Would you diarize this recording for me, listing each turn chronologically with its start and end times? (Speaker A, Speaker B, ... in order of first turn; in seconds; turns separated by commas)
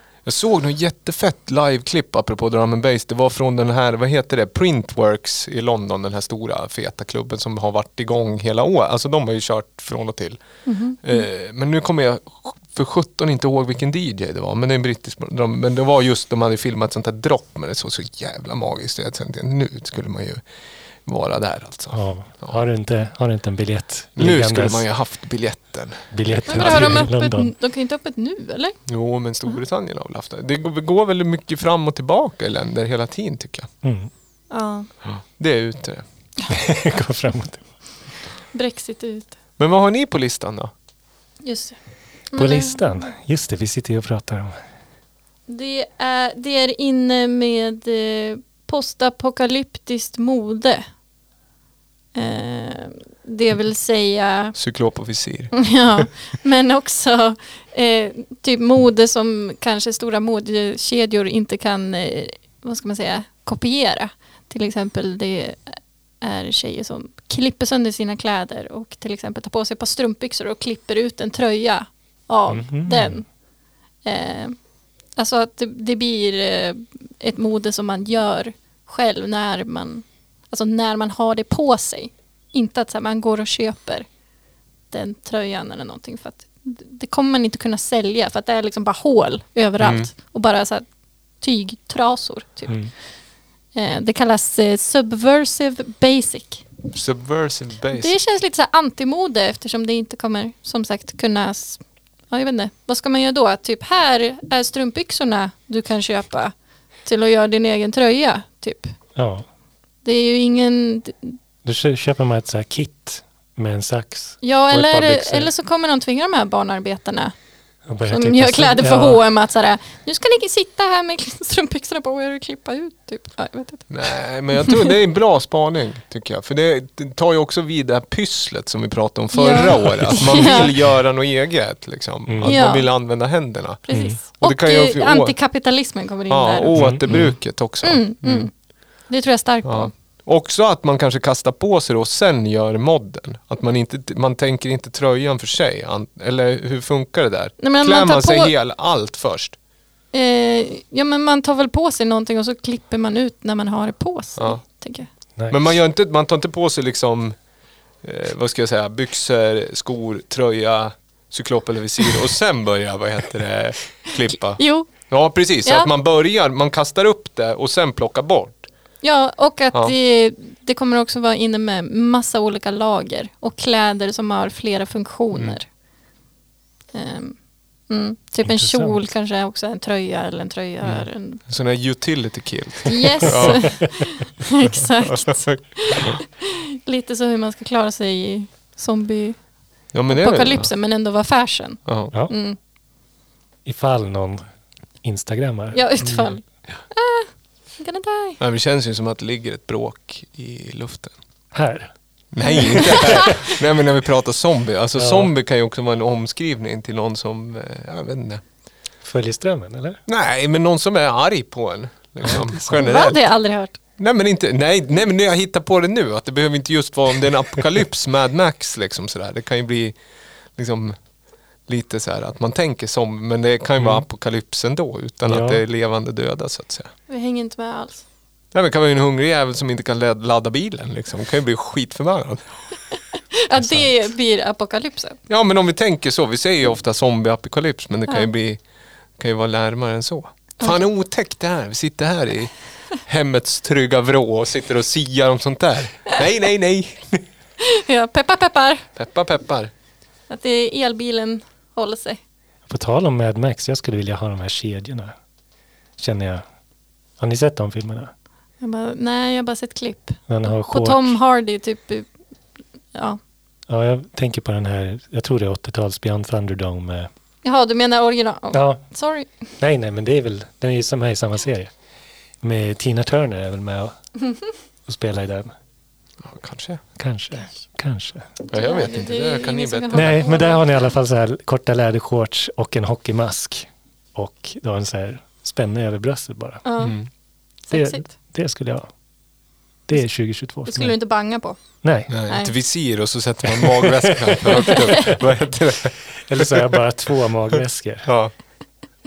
Speaker A: 0.2-10.4, Speaker B: 10.7-11.2, Speaker A: 11.0-20.4, Speaker A: 21.1-22.6, Speaker C: 21.9-24.8, Speaker A: 24.2-27.1, Speaker C: 26.1-27.5, Speaker B: 26.5-28.8, Speaker A: 28.9-33.7, Speaker C: 33.8-34.1, Speaker B: 34.5-34.9, Speaker A: 35.0-36.0, Speaker C: 36.5-37.6, Speaker B: 38.5-39.3, Speaker A: 39.6-40.7, Speaker B: 41.4-41.8, Speaker B: 42.3-43.0, Speaker C: 42.4-44.6, Speaker B: 45.5-50.8, Speaker B: 52.1-54.6, Speaker A: 54.5-56.0, Speaker B: 55.5-73.2, Speaker C: 72.5-73.2, Speaker B: 74.0-74.5, Speaker B: 75.2-84.1, Speaker B: 84.9-90.8, Speaker A: 89.8-90.1, Speaker B: 91.4-92.8, Speaker B: 93.7-96.7, Speaker A: 96.9-98.1, Speaker B: 97.9-106.5, Speaker B: 107.0-108.9, Speaker C: 109.2-109.4, Speaker B: 110.0-111.3, Speaker C: 111.6-115.5, Speaker B: 114.4-117.3, Speaker C: 117.9-119.2, Speaker B: 118.1-124.0, Speaker A: 123.9-135.4, Speaker B: 124.6-124.9, Speaker B: 129.3-130.7, Speaker C: 132.3-132.6, Speaker B: 132.4-133.0, Speaker B: 133.8-137.1, Speaker C: 133.9-134.2, Speaker A: 136.3-138.5, Speaker C: 136.8-137.4, Speaker B: 137.8-138.5, Speaker B: 139.1-139.9, Speaker A: 139.6-149.6, Speaker B: 147.6-148.5, Speaker B: 150.1-155.1, Speaker A: 155.5-157.3, Speaker A: 158.0-168.7, Speaker B: 164.6-165.1, Speaker B: 165.6-165.9, Speaker B: 169.0-175.7, Speaker B: 176.9-177.3, Speaker B: 177.9-181.4, Speaker C: 178.4-179.0, Speaker A: 180.8-183.8, Speaker B: 182.9-189.4, Speaker A: 184.6-186.2, Speaker A: 189.9-190.7, Speaker B: 190.1-192.6, Speaker A: 191.8-192.1, Speaker C: 193.6-194.4, Speaker C: 195.0-195.9, Speaker B: 195.7-198.4, Speaker A: 198.4-201.1, Speaker C: 201.5-201.9, Speaker A: 202.3-208.4, Speaker B: 202.5-203.4, Speaker C: 202.6-203.0, Speaker C: 205.0-205.3, Speaker C: 209.0-210.0, Speaker A: 210.1-213.2, Speaker B: 212.7-213.8, Speaker A: 214.0-219.9, Speaker A: 220.6-220.9, Speaker A: 221.7-226.9, Speaker C: 225.2-225.6, Speaker B: 227.1-228.0, Speaker A: 228.5-232.4, Speaker B: 233.5-235.2, Speaker A: 233.6-233.9, Speaker A: 235.3-238.6, Speaker A: 239.2-247.2, Speaker B: 247.6-248.8, Speaker A: 248.9-249.7, Speaker B: 250.3-252.2, Speaker C: 252.7-255.1, Speaker C: 256.0-256.4, Speaker C: 257.2-258.1, Speaker B: 258.6-262.1, Speaker C: 260.3-261.2, Speaker C: 263.7-267.1, Speaker B: 267.4-269.3, Speaker C: 268.5-268.8, Speaker C: 269.6-271.7, Speaker C: 272.4-273.9, Speaker C: 274.9-275.5, Speaker A: 276.2-276.8, Speaker C: 277.0-278.3, Speaker A: 278.5-280.2, Speaker B: 278.5-280.8, Speaker C: 279.9-286.6, Speaker B: 286.6-287.0, Speaker A: 286.8-287.1, Speaker B: 287.7-288.1, Speaker C: 287.7-288.9, Speaker C: 289.9-290.9, Speaker B: 290.6-291.6, Speaker C: 291.8-292.1, Speaker A: 292.1-296.8, Speaker C: 293.7-295.1, Speaker B: 294.6-295.1, Speaker C: 296.2-298.1, Speaker A: 297.5-298.3